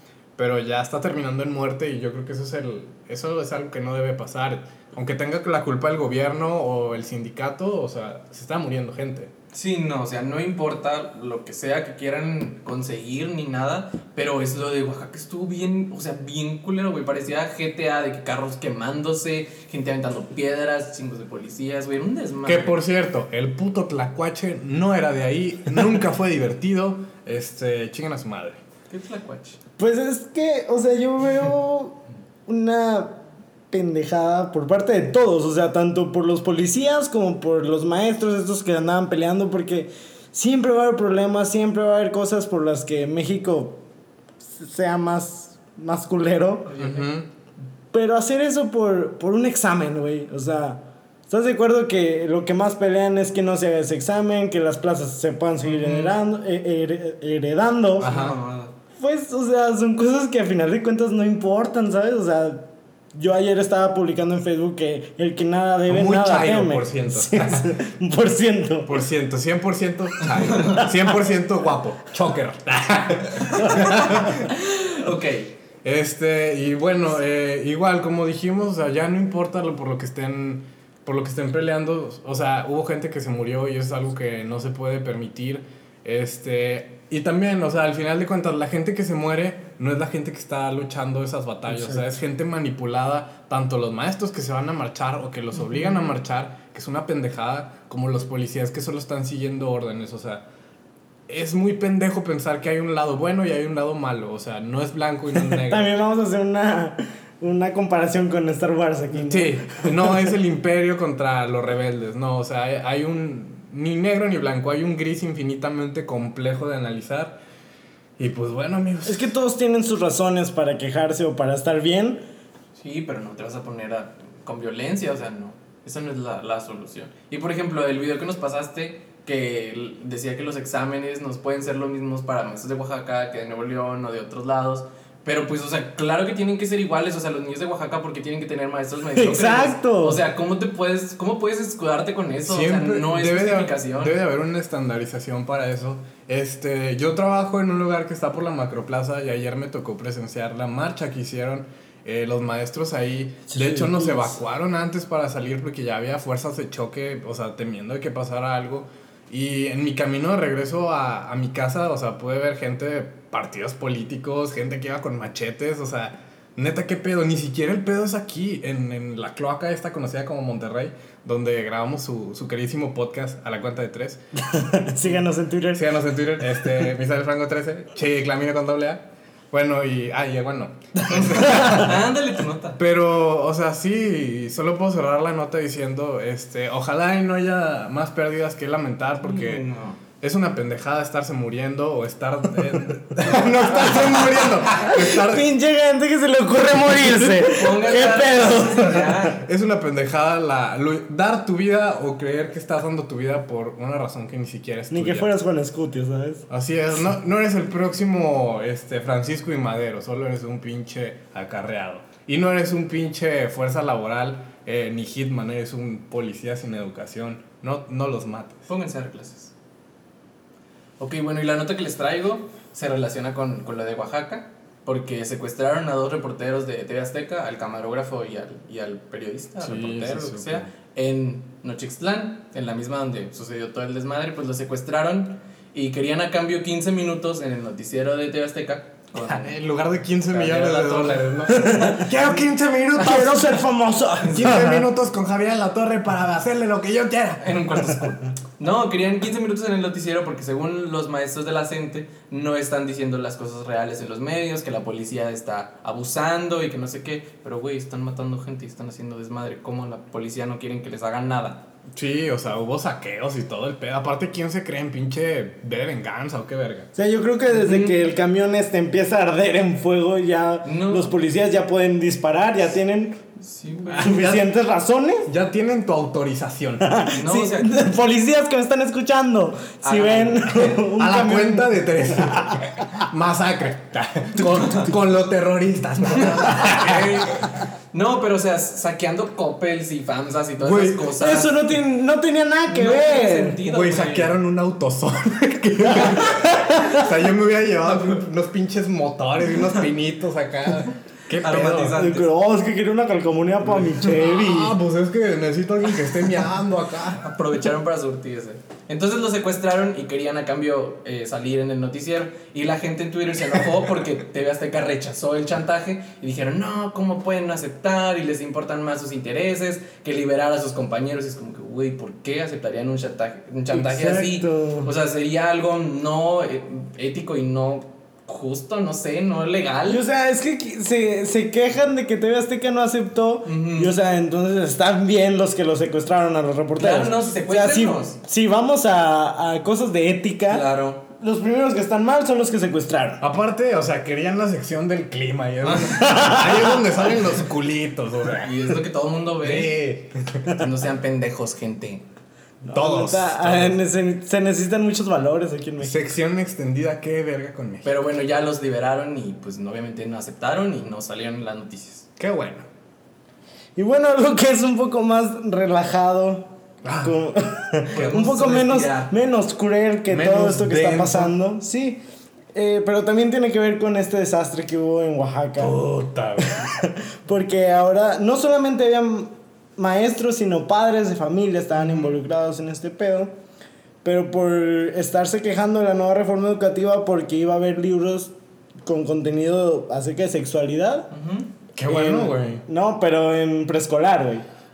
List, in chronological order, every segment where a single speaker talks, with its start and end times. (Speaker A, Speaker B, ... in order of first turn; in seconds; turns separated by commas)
Speaker A: 0.4-9.3, Speaker B: 9.5-22.8, Speaker A: 22.4-28.6, Speaker B: 28.9-29.6, Speaker C: 29.8-43.8, Speaker C: 44.4-46.7, Speaker B: 46.6-47.1, Speaker A: 46.8-47.3, Speaker C: 47.9-58.1, Speaker B: 55.6-56.1, Speaker A: 58.0-58.4, Speaker B: 58.0-58.7, Speaker C: 59.0-69.0, Speaker A: 65.9-67.7, Speaker A: 68.8-74.5, Speaker C: 70.8-71.1, Speaker C: 73.5-74.3, Speaker B: 74.1-75.5, Speaker A: 75.8-100.4, Speaker C: 91.7-92.2, Speaker A: 101.3-105.9, Speaker C: 105.3-110.3, Speaker A: 109.1-117.4, Speaker A: 118.2-119.3, Speaker C: 119.0-122.2, Speaker B: 122.8-144.2, Speaker C: 139.1-140.2, Speaker A: 142.5-174.2, Speaker C: 153.5-154.4, Speaker C: 174.4-176.0, Speaker A: 175.7-182.1, Speaker C: 176.6-176.8, Speaker B: 181.1-182.8, Speaker A: 182.8-189.7, Speaker B: 189.2-190.0, Speaker A: 190.2-195.5, Speaker C: 193.2-199.3, Speaker B: 197.4-199.4, Speaker A: 198.9-205.3, Speaker C: 204.9-206.4, Speaker A: 206.5-218.7, Speaker B: 218.7-219.5, Speaker B: 221.0-239.5, Speaker A: 229.6-230.7, Speaker A: 239.2-243.5, Speaker B: 240.3-241.4, Speaker C: 241.5-242.1, Speaker C: 242.9-244.9, Speaker B: 244.2-244.6, Speaker A: 244.3-247.8, Speaker B: 247.4-261.6, Speaker A: 261.9-266.9, Speaker C: 266.9-273.2, Speaker B: 267.5-267.9, Speaker B: 270.6-271.1, Speaker B: 273.4-274.1, Speaker A: 273.9-274.5, Speaker C: 274.0-275.3, Speaker A: 275.3-276.9, Speaker C: 276.8-282.7, Speaker B: 277.1-277.8, Speaker B: 279.8-280.8, Speaker A: 280.8-287.5, Speaker B: 284.5-284.9, Speaker B: 286.1-291.6, Speaker A: 290.6-291.1, Speaker C: 291.2-293.6, Speaker B: 292.7-294.3, Speaker A: 293.6-302.0, Speaker C: 295.8-297.1, Speaker B: 297.8-298.2, Speaker B: 301.3-302.3, Speaker C: 301.9-304.8, Speaker A: 303.8-307.2, Speaker B: 307.2-330.0, Speaker C: 323.7-324.9, Speaker C: 329.9-343.2, Speaker B: 333.4-334.0, Speaker B: 336.8-338.2, Speaker B: 340.5-341.0, Speaker A: 343.2-348.8, Speaker C: 345.8-346.9, Speaker B: 348.4-349.7, Speaker A: 349.4-350.5, Speaker B: 350.5-352.0, Speaker C: 352.6-355.9, Speaker A: 352.7-353.8, Speaker A: 355.8-357.9, Speaker B: 357.8-362.1, Speaker A: 362.2-362.6, Speaker C: 363.8-372.0, Speaker A: 366.8-367.1, Speaker B: 367.9-369.1, Speaker A: 367.9-368.2, Speaker A: 370.1-371.3, Speaker C: 372.5-375.8, Speaker A: 375.6-376.7, Speaker C: 376.4-383.3, Speaker C: 384.0-388.3, Speaker C: 388.8-391.1, Speaker B: 391.1-391.5, Speaker A: 391.8-392.6, Speaker C: 391.9-394.4